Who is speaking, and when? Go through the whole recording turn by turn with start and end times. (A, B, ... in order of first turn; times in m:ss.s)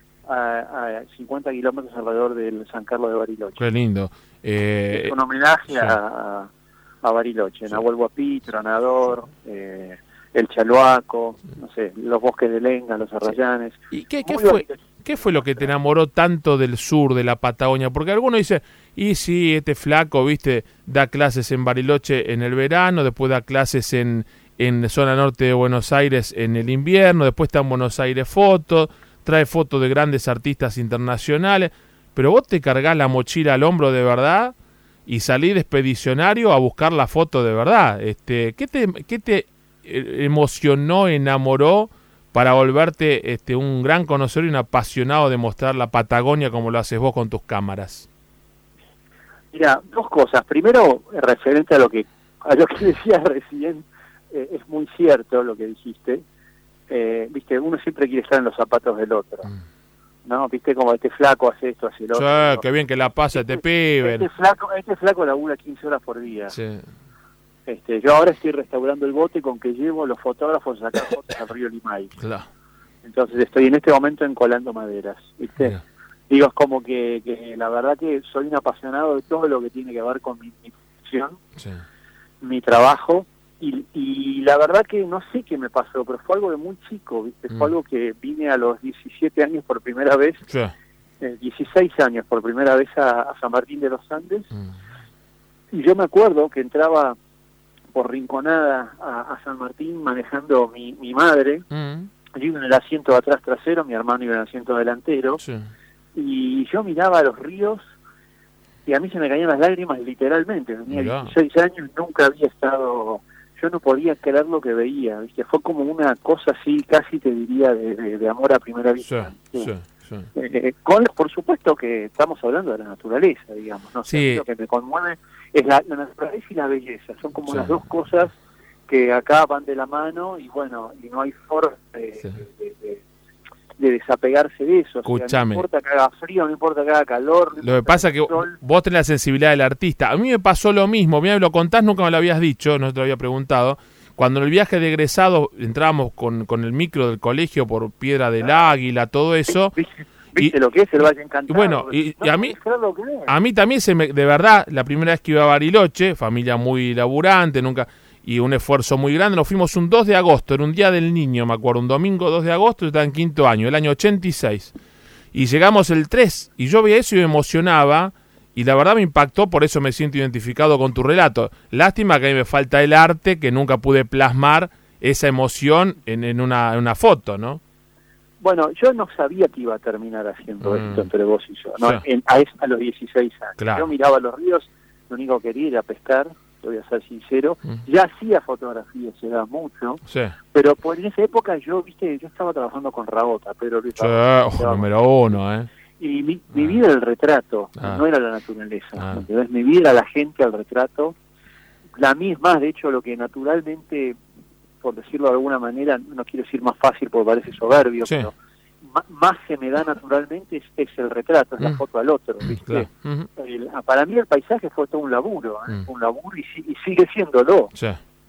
0:00.2-0:03.6 A
0:03.6-0:05.2 B
0:04.9-0:06.5 A
0:07.0-0:15.7 A
0:13.9-0:34.5 B
0:35.1-0:48.1 B
0:49.5-0:56.2 A
0:56.9-0:59.5 A
1:00.2-1:02.6 A
1:02.1-1:04.3 B
1:03.3-1:06.6 A
1:06.5-1:06.8 B
1:07.7-1:12.1 A
1:12.2-1:12.4 B
1:13.0-1:15.8 A
1:16.3-1:21.4 A
1:22.4-1:30.4 A
1:30.5-1:30.7 B
1:31.2-1:34.5 A
1:35.7-1:37.2 A
1:37.9-1:41.6 A
1:41.7-1:42.1 B
1:42.3-1:45.4 A
1:45.4-1:45.7 B
1:46.1-1:47.8 A
1:48.8-1:59.7 A
1:50.9-1:51.3 B
1:59.0-2:00.3 B
2:00.3-2:08.3 A
2:04.1-2:04.4 B
2:07.5-2:07.8 B
2:08.9-2:13.0 A
2:13.8-2:18.6 A
2:15.0-2:15.6 B
2:17.6-2:29.7 B
2:29.5-2:33.3 A
2:31.5-2:32.5 B
2:33.3-2:44.7 B
2:45.3-2:57.6 B
2:58.4-3:10.0 A
3:00.6-3:01.1 B
3:03.6-3:03.9 B
3:10.1-3:10.3 B
3:10.5-3:14.9 A
3:14.0-3:15.7 B
3:16.0-3:21.2 A
3:17.8-3:18.0 B
3:19.0-3:19.2 B
3:22.0-3:24.2 A
3:24.8-3:37.7 A
3:28.0-3:28.3 B
3:32.4-3:33.3 B
3:37.7-3:38.0 B